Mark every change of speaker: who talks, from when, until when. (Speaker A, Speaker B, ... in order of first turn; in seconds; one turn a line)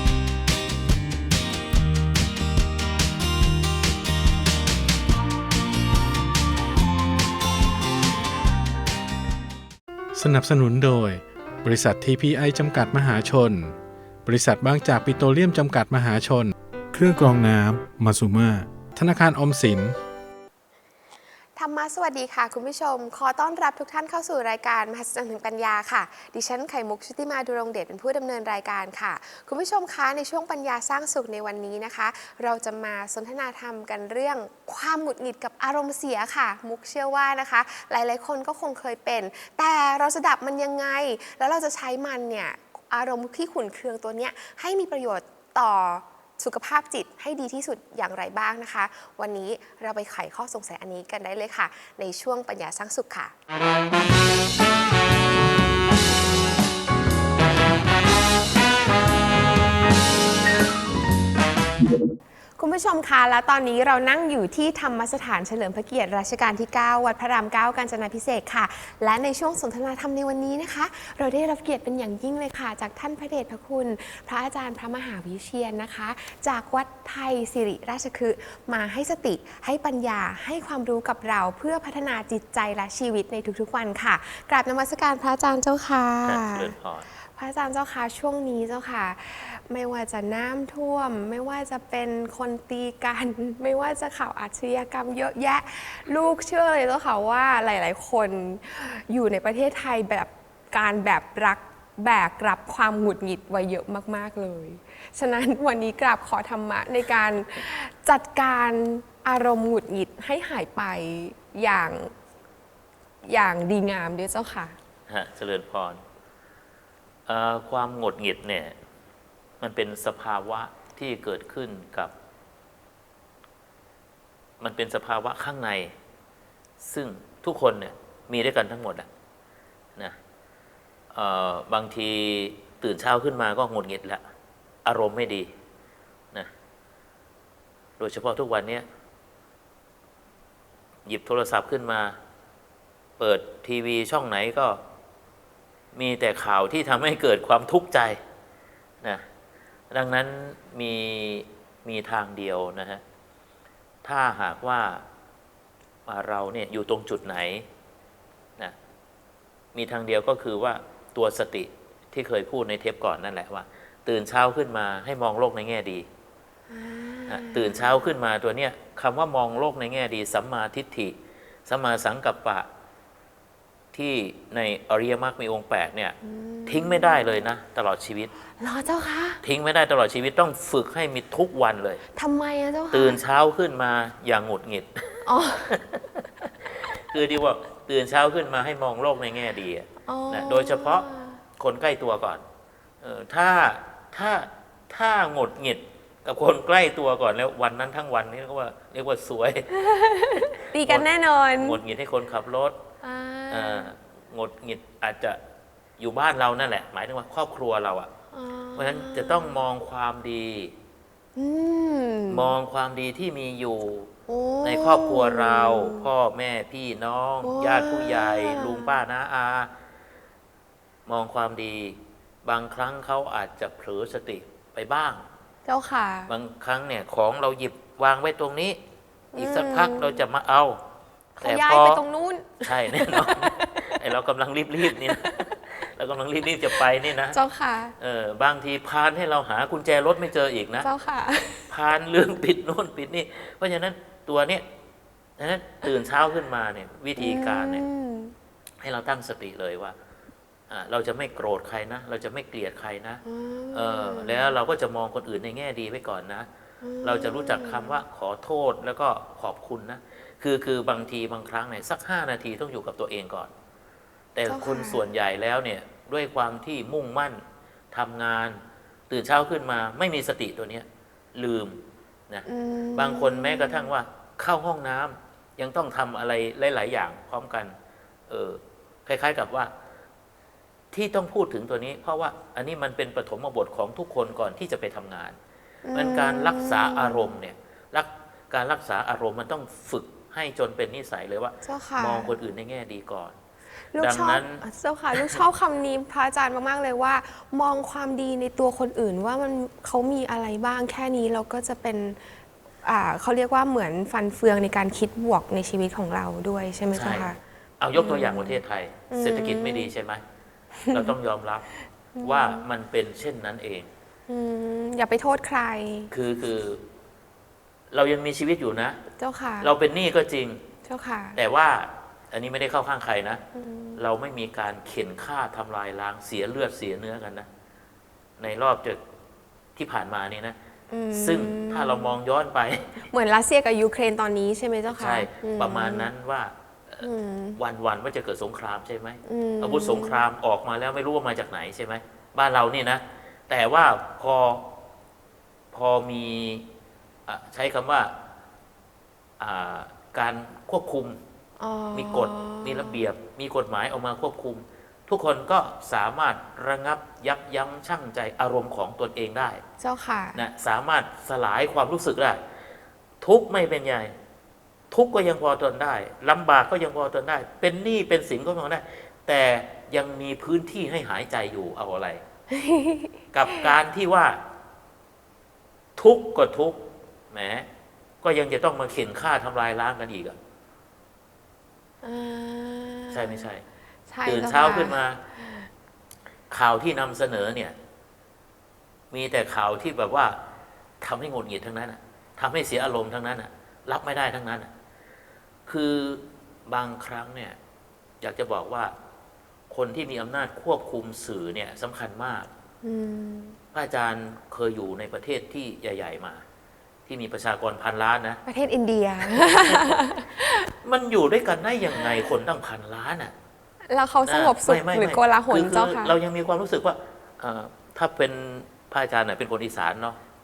Speaker A: 10.2-13.8
Speaker A: 14.3-20.0
Speaker B: 21.6-53.3
Speaker B: 62.6-112.1
Speaker C: 86.2-87.1
Speaker B: 113.3-114.8
Speaker C: 115.1-116.0
Speaker C: 117.3-118.8
Speaker C: 119.6-122.1
Speaker C: 124.6-125.9
Speaker C: 126.8-129.1
Speaker C: 131.1-134.2
Speaker C: 134.8-135.5
Speaker C: 138.0-138.9
Speaker C: 141.1-142.2
Speaker C: 143.2-144.8
Speaker C: 145.9-148.2
Speaker C: 149.9-153.0
Speaker C: 154.0-155.0
Speaker C: 156.1-157.7
Speaker C: 159.8-166.1
Speaker B: 166.7-168.0
Speaker C: 167.3-171.2
Speaker C: 171.7-172.7
Speaker C: 173.9-178.3
Speaker B: 176.2-177.4
Speaker B: 178.6-179.4
Speaker C: 179.4-182.0
Speaker B: 182.2-183.2
Speaker C: 182.9-191.1
Speaker B: 185.2-185.8
Speaker B: 190.1-191.4
Speaker C: 191.6-192.4
Speaker C: 193.0-199.7
Speaker B: 199.7-201.8
Speaker C: 200.8-201.1
Speaker C: 201.6-202.8
Speaker B: 203.0-203.9
Speaker C: 203.5-205.4
Speaker C: 206.0-208.1
Speaker B: 208.3-209.6
Speaker C: 208.8-210.7
Speaker B: 211.4-212.5
Speaker C: 212.3-214.1
Speaker B: 214.3-216.1
Speaker C: 214.6-219.7
Speaker B: 217.4-219.0
Speaker C: 221.1-225.2
Speaker B: 225.7-226.3
Speaker C: 226.3-228.8
Speaker B: 229.3-230.2
Speaker C: 229.4-230.8
Speaker B: 231.4-234.0
Speaker C: 231.4-232.0
Speaker C: 232.6-237.4
Speaker B: 234.9-235.5
Speaker B: 237.3-237.9
Speaker C: 238.0-240.9
Speaker B: 240.8-241.7
Speaker C: 241.6-244.6
Speaker C: 245.4-247.8
Speaker B: 247.2-248.3
Speaker C: 248.8-250.0
Speaker C: 250.7-256.5
Speaker B: 253.2-254.5
Speaker B: 256.8-258.0
Speaker C: 257.0-263.5
Speaker C: 264.4-268.6
Speaker B: 264.5-265.0
Speaker C: 269.1-277.7
Speaker B: 272.5-273.9
Speaker C: 278.3-279.7
Speaker C: 280.9-285.4
Speaker B: 285.9-287.3
Speaker C: 285.9-293.4
Speaker B: 291.6-292.3
Speaker B: 293.9-302.2
Speaker C: 294.0-294.6
Speaker B: 302.8-307.4
Speaker C: 306.9-310.2
Speaker B: 307.9-308.6
Speaker B: 309.1-309.9
Speaker B: 310.8-311.1
Speaker C: 310.9-311.6
Speaker B: 312.2-312.6
Speaker C: 312.2-313.9
Speaker B: 314.3-316.1
Speaker C: 316.1-316.8
Speaker C: 317.9-319.0
Speaker B: 319.2-319.7
Speaker C: 319.6-320.6
Speaker B: 320.9-321.4
Speaker C: 321.4-323.4
Speaker B: 323.6-324.0
Speaker C: 324.0-327.5
Speaker C: 328.4-329.0
Speaker C: 329.8-330.6
Speaker B: 330.9-332.1
Speaker C: 331.1-333.0
Speaker B: 333.1-336.1
Speaker C: 334.9-337.0
Speaker B: 337.0-337.6
Speaker C: 337.6-344.7
Speaker B: 339.3-340.2
Speaker C: 345.7-346.7
Speaker C: 347.3-348.1
Speaker C: 349.4-351.2
Speaker B: 351.6-353.0
Speaker C: 351.9-359.6
Speaker B: 359.8-360.4
Speaker C: 360.4-362.4
Speaker C: 363.2-364.1
Speaker C: 364.9-372.2
Speaker B: 372.5-373.7
Speaker C: 373.3-374.4
Speaker C: 376.0-377.7
Speaker C: 378.2-380.4
Speaker B: 382.0-383.5
Speaker C: 383.1-383.6
Speaker B: 384.1-385.7
Speaker C: 384.2-385.2
Speaker C: 386.5-387.8
Speaker C: 389.1-390.4
Speaker C: 391.0-394.7
Speaker C: 395.7-397.6
Speaker C: 398.2-398.9
Speaker C: 399.7-402.5
Speaker B: 402.8-403.6
Speaker C: 403.7-406.4
Speaker C: 407.1-408.4
Speaker B: 408.5-410.7
Speaker C: 409.3-409.9
Speaker C: 410.8-413.3
Speaker B: 413.9-416.1
Speaker C: 414.3-420.2